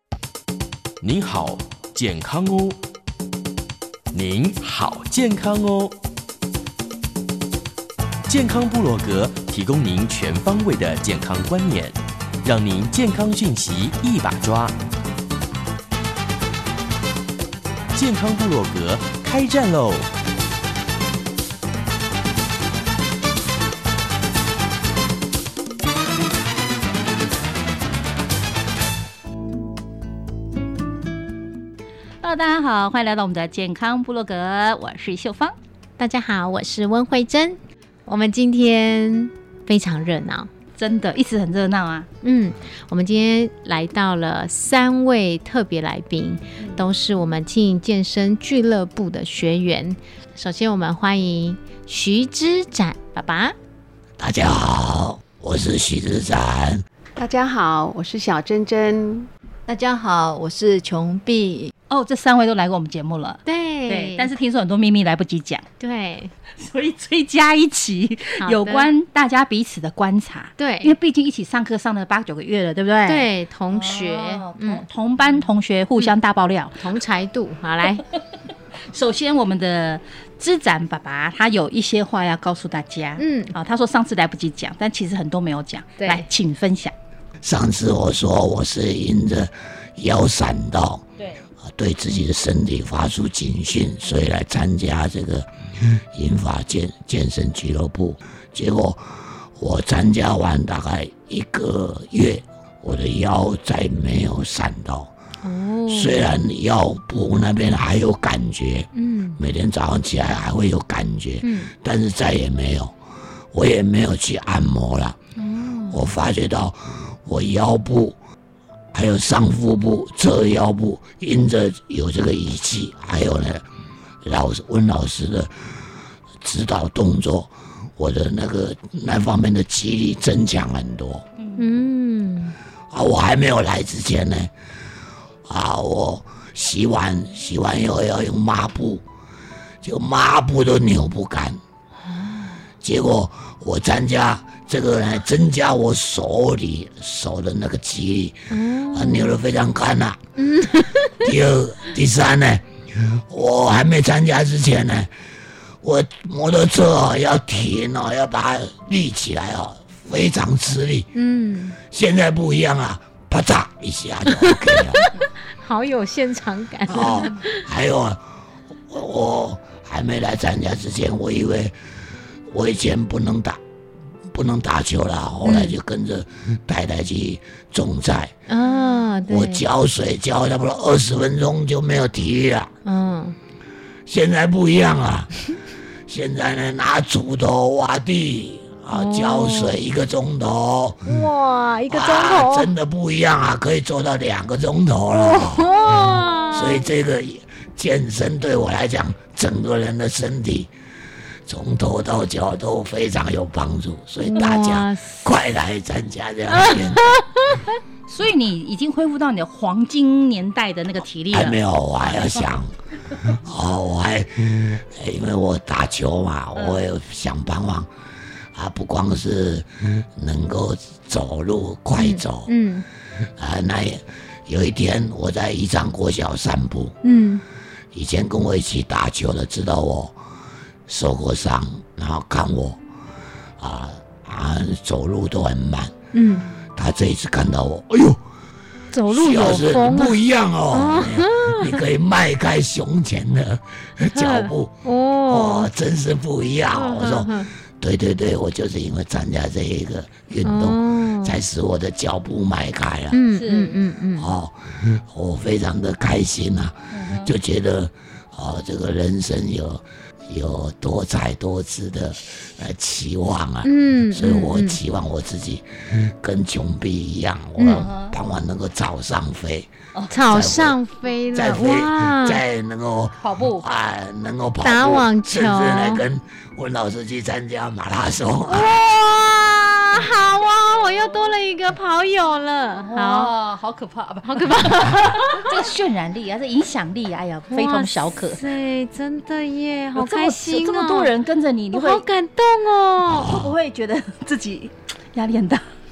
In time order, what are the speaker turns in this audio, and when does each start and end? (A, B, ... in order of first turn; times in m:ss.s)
0:01.0-0:02.8 A
0:04.1-0:06.0 A
0:08.3-0:14.8 A
0:17.9-0:20.1 A
0:32.2-0:35.5 B
0:36.0-0:40.5 C
0:40.8-0:42.1 B
0:42.2-0:53.6 C
0:54.2-0:56.8 D
0:57.2-0:59.3 E
0:59.6-1:01.7 F
1:01.9-1:05.6 B
1:03.4-1:04.3 C
1:05.8-1:06.3 C
1:06.6-1:16.8 B
1:08.4-1:08.9 C
1:10.6-1:11.0 C
1:13.0-1:14.8 C
1:16.8-1:18.0 C
1:18.8-1:26.9 B
1:23.2-1:23.5 C
1:26.0-1:26.2 C
1:27.4-1:31.0 D
1:31.6-1:45.1 D
1:45.4-1:46.3 C
1:45.9-1:52.9 D
1:48.9-1:49.4 C
1:51.4-1:51.7 C
1:53.5-1:55.2 D
1:55.4-1:56.0 C
1:55.9-1:58.2 D
1:58.9-2:03.6 D
2:04.2-2:05.5 D
2:06.4-2:11.2 D
2:11.4-2:11.7 B
2:11.6-2:12.6 C
2:12.9-2:14.5 D
2:15.4-2:19.0 D
2:19.8-2:21.6 D
2:22.0-2:22.6 C
2:22.8-2:30.2 D
2:28.5-2:29.4 C
2:30.4-2:31.3 C
2:31.2-2:35.1 D
2:35.8-2:41.1 D
2:41.1-2:41.8 C
2:41.8-2:45.1 D
2:44.3-2:47.6 C
2:46.9-2:48.2 D
2:48.9-2:51.7 D
2:52.5-2:53.6 D
2:54.3-2:58.3 D
2:55.4-2:55.8 C
2:58.5-2:59.6 C
2:59.3-3:02.7 D
3:02.8-3:03.4 C
3:04.0-3:05.5 D
3:06.1-3:11.2 D
3:08.9-3:09.8 C
3:11.0-3:12.7 C
3:11.9-3:15.8 D
3:15.1-3:16.9 C
3:16.5-3:20.7 D
3:21.5-3:27.1 D
3:24.2-3:25.3 C
3:26.5-3:27.6 C
3:28.1-3:32.5 B
3:31.3-3:32.7 D
3:33.3-3:37.9 D
3:38.5-3:42.5 D
3:42.0-3:42.8 C
3:43.4-3:47.0 D
3:47.0-3:47.4 C
3:47.9-3:50.2 D
3:50.9-3:52.8 D
3:53.6-3:55.9 D
3:56.1-3:56.4 C
3:56.7-3:58.2 D
3:58.9-4:00.2 C
3:59.1-4:04.7 D
4:00.7-4:01.8 C
4:04.1-4:05.7 C
4:05.3-4:13.2 D
4:06.7-4:07.5 C
4:10.4-4:11.4 C
4:13.1-4:14.3 C
4:13.3-4:13.7 B
4:14.2-4:29.7 D
4:16.9-4:17.3 B
4:23.6-4:24.8 C
4:27.6-4:27.8 C
4:27.7-4:28.2 B
4:29.9-4:30.2 B
4:30.1-4:32.4 C
4:30.2-4:30.8 D
4:31.3-4:38.7 D
4:33.2-4:33.6 B
4:34.6-4:36.0 C
4:38.4-4:43.3 C
4:42.7-4:48.4 B
4:44.2-4:45.5 C
4:47.5-4:51.1 C
4:50.0-4:52.0 B
4:51.7-4:53.3 C
4:53.0-4:53.5 D
4:53.2-4:55.6 B